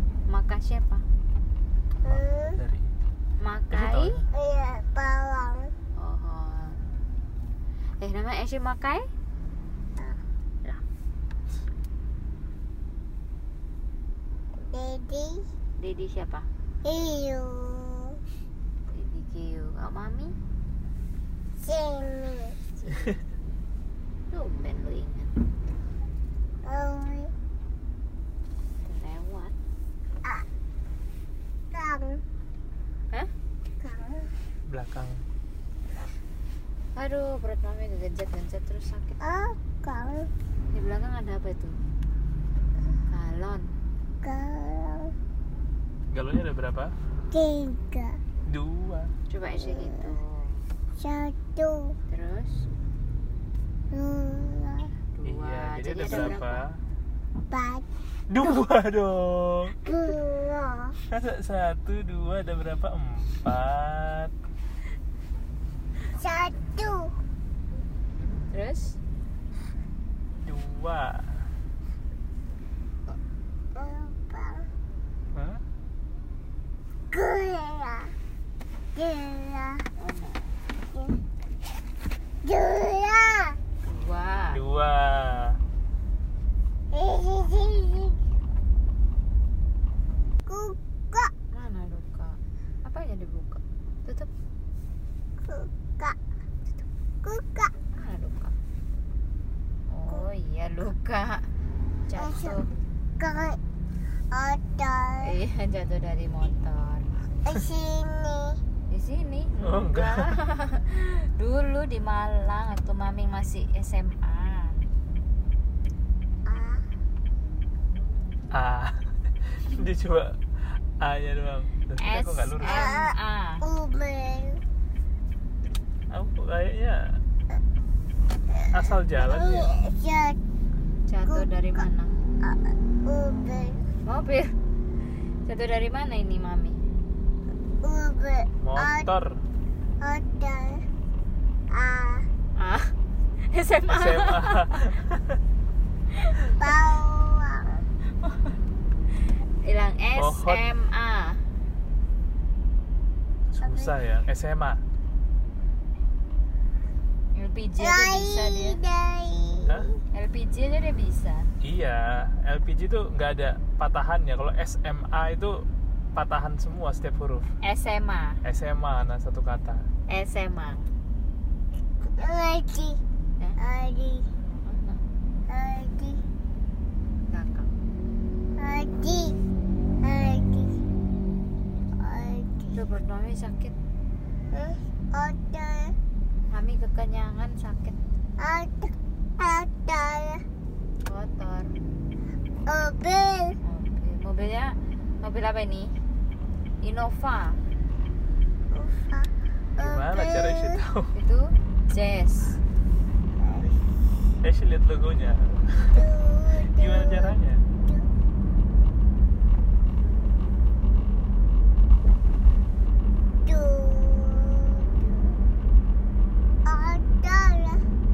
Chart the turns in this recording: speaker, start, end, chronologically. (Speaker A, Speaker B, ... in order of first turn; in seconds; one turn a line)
Speaker A: 0.3-1.0
Speaker B: 2.0-2.6
Speaker C: 2.0-2.9
Speaker A: 3.4-4.2
Speaker C: 3.7-4.3
Speaker B: 4.3-5.7
Speaker A: 6.0-6.8
Speaker A: 8.0-9.1
Speaker B: 14.7-15.4
Speaker A: 15.8-16.5
Speaker B: 16.8-18.2
Speaker A: 18.9-20.4
Speaker B: 21.6-22.6
Speaker A: 22.8-23.2
Speaker A: 24.3-25.4
Speaker B: 26.6-27.3
Speaker A: 28.8-29.6
Speaker B: 31.7-32.2
Speaker B: 33.8-34.3
Speaker C: 34.7-35.2
Speaker A: 36.9-39.2
Speaker B: 39.2-40.3
Speaker A: 40.7-41.8
Speaker A: 43.1-43.7
Speaker B: 44.2-45.1
Speaker C: 46.1-46.9
Speaker B: 47.3-48.2
Speaker C: 48.5-49.1
Speaker A: 49.3-50.7
Speaker B: 49.7-50.1
Speaker B: 51.0-52.0
Speaker A: 52.1-52.7
Speaker B: 53.9-54.9
Speaker A: 55.1-56.7
Speaker C: 55.2-56.8
Speaker B: 56.1-56.4
Speaker B: 57.5-57.9
Speaker C: 58.3-59.8
Speaker B: 59.8-61.0
Speaker C: 61.0-64.3
Speaker B: 66.1-67.1
Speaker A: 68.5-69.0
Speaker C: 70.4-71.3
Speaker B: 73.8-74.7
Speaker C: 75.3-75.6
Speaker B: 77.1-78.1
Speaker B: 78.9-79.9
Speaker A: 80.0-80.5
Speaker B: 82.4-83.6
Speaker A: 83.8-84.6
Speaker C: 84.5-85.6
Speaker B: 86.9-88.2
Speaker B: 90.5-91.3
Speaker A: 91.5-94.3
Speaker B: 95.4-96.2
Speaker B: 97.2-97.7
Speaker A: 97.9-98.5
Speaker A: 99.9-101.5
Speaker A: 102.1-102.7
Speaker B: 102.2-102.6
Speaker B: 103.2-103.6
Speaker B: 104.3-105.4
Speaker A: 105.2-107.1
Speaker B: 107.5-108.6
Speaker A: 108.9-114.8
Speaker C: 109.6-110.4
Speaker B: 116.5-116.8
Speaker C: 118.5-119.0
Speaker C: 119.5-120.4
Speaker C: 121.0-122.9
Speaker A: 122.0-123.7
Speaker B: 122.6-124.6
Speaker C: 126.1-127.2
Speaker C: 128.7-129.7
Speaker B: 128.7-130.4
Speaker A: 131.1-132.2
Speaker B: 132.4-133.8
Speaker A: 134.0-134.5
Speaker A: 135.5-136.8
Speaker B: 137.8-139.1
Speaker C: 138.6-139.4
Speaker B: 140.0-140.8
Speaker B: 141.7-142.3
Speaker A: 142.6-142.9
Speaker A: 143.5-144.9
Speaker C: 143.9-145.4
Speaker A: 146.2-146.5
Speaker B: 146.6-147.8
Speaker A: 149.6-151.4
Speaker C: 150.2-150.7
Speaker C: 153.5-154.8
Speaker B: 153.6-154.0
Speaker A: 157.3-158.8
Speaker B: 157.8-160.0
Speaker A: 160.1-161.5
Speaker C: 161.6-167.5
Speaker A: 167.6-168.4
Speaker C: 168.4-169.9
Speaker A: 170.1-170.8
Speaker B: 172.2-173.0
Speaker B: 173.6-174.3
Speaker A: 174.6-175.0
Speaker B: 175.5-176.2
Speaker A: 177.3-177.7
Speaker B: 178.6-179.4
Speaker B: 180.0-180.7
Speaker B: 182.0-182.8
Speaker A: 182.7-183.8
Speaker B: 184.5-185.9
Speaker A: 186.5-188.0
Speaker B: 188.4-190.4
Speaker A: 191.1-191.7
Speaker B: 192.7-193.6
Speaker A: 193.6-196.0
Speaker A: 196.8-197.6
Speaker B: 198.7-200.8
Speaker C: 199.8-201.2
Speaker A: 201.1-202.6
Speaker B: 203.4-203.7
Speaker C: 204.4-206.1
Speaker B: 205.9-208.1
Speaker C: 206.6-207.6
Speaker B: 213.5-215.4
Speaker B: 216.6-217.8